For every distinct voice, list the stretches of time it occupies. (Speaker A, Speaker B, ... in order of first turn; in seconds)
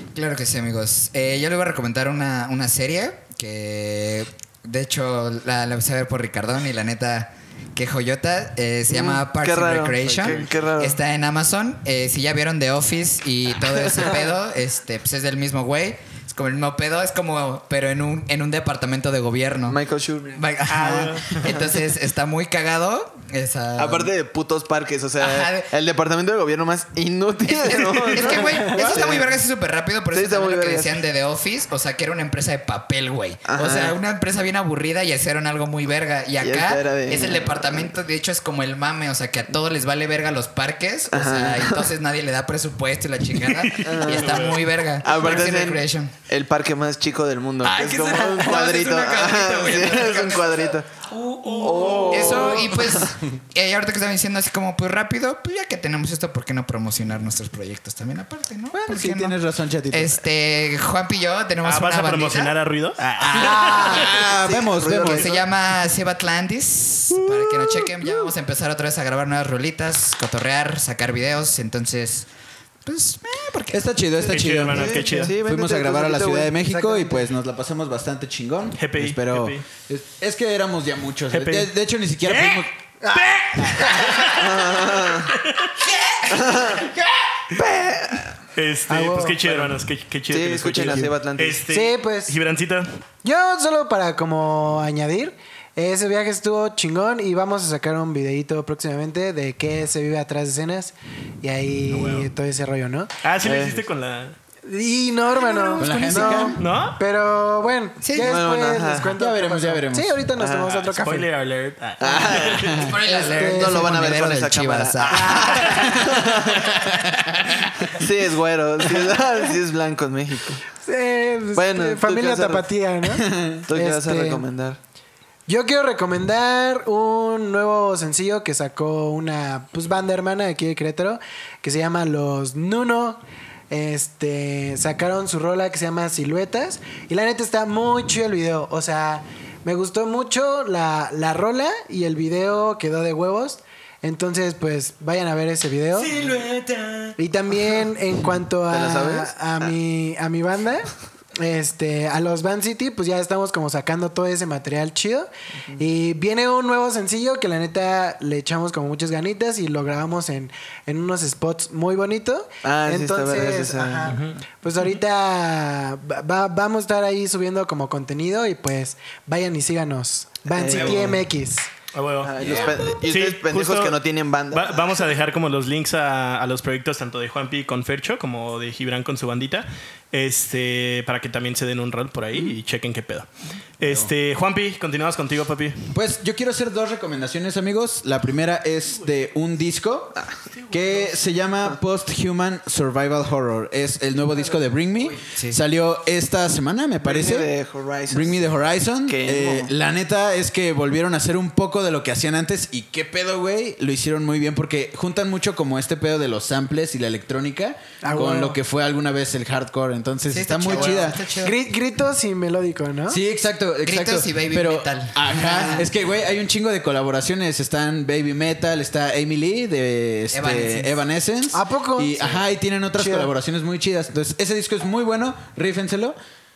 Speaker A: 0.1-19.8, 20.4-24.1, 25.2-25.7, 27.5-46.1, 47.6-59.4, 59.9-62.5, 63.2-72.3, 72.8-73.9, 85.8-86.7, 105.3-106.6, 108.0-108.4, 112.7-115.8, 116.7-118.0, 195.3-195.6, 210.3-211.6, 213.8-215.9, 220.3-220.9
Speaker B: 8.9-11.0, 19.7-20.4, 23.8-29.3, 30.1-31.0, 33.5-33.9, 36.4-37.7, 41.1-41.9, 43.8-50.9, 51.6-53.1, 64.2-65.4, 74.7-76.5, 84.2-85.3, 86.3-86.9, 87.5-88.4, 90.3-91.6, 103.4-103.8, 108.2-109.2, 110.3-110.8, 112.0-116.8, 117.8-120.6, 121.5-122.7, 123.7-124.8, 148.7-149.7, 162.6-164.3, 170.5-171.2, 172.2-175.1, 197.0-198.4, 199.1-199.7
Speaker C: 20.7-21.6, 43.5-44.6, 61.6-64.1, 74.2-75.3, 78.8-79.6, 81.3-81.7, 82.2-85.7, 88.5-92.9, 101.9-102.3, 103.2-104.3, 106.6-107.0, 110.7-112.8, 164.1-165.0, 170.7-171.0, 171.9-174.0, 174.5-183.3, 183.8-185.8, 190.5-191.1
Speaker D: 51.9-52.6, 58.7-60.2, 63.3-65.3, 73.7-82.7, 90.8-91.1, 105.8-106.6, 109.2-110.2, 115.8-117.3, 123.2-123.6, 183.8-184.1, 185.9-197.5, 198.1-211.2, 213.1-226.2
Speaker E: 63.4-64.1, 76.6-77.2, 83.0-84.2, 88.9-89.5, 91.7-92.3, 93.2-103.1, 104.7-111.3, 113.0-113.9, 115.1-116.0, 120.8-124.4, 125.5-146.2, 147.2-171.7, 208.0-208.6, 211.4-213.2, 221.5-222.2, 223.0-223.3